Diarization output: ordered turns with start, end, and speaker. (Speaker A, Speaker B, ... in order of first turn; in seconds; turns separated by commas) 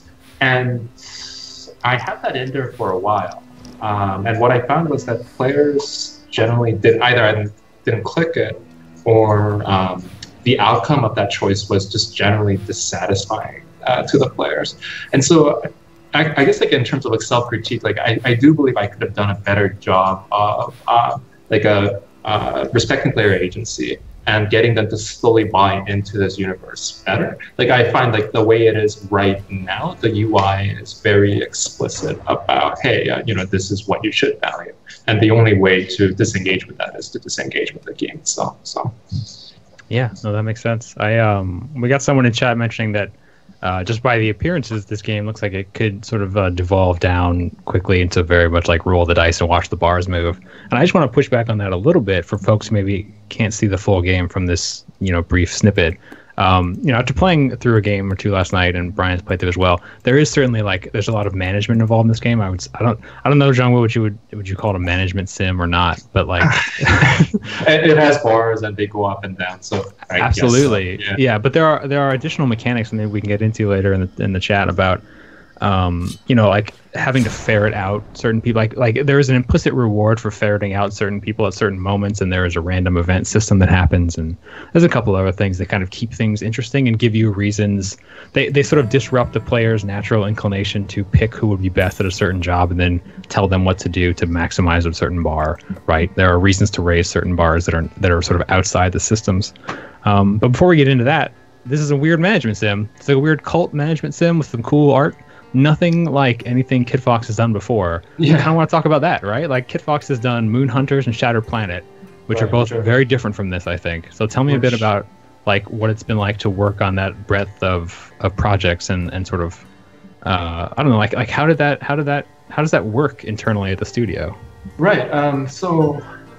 Speaker A: 0.4-39.0, Speaker B: 39.9-67.4, Speaker A: 66.4-71.2, Speaker B: 70.2-75.0, Speaker B: 75.6-119.6, Speaker A: 108.2-108.5, Speaker A: 112.3-112.9, Speaker A: 114.5-114.9, Speaker B: 120.2-124.4, Speaker A: 124.8-126.0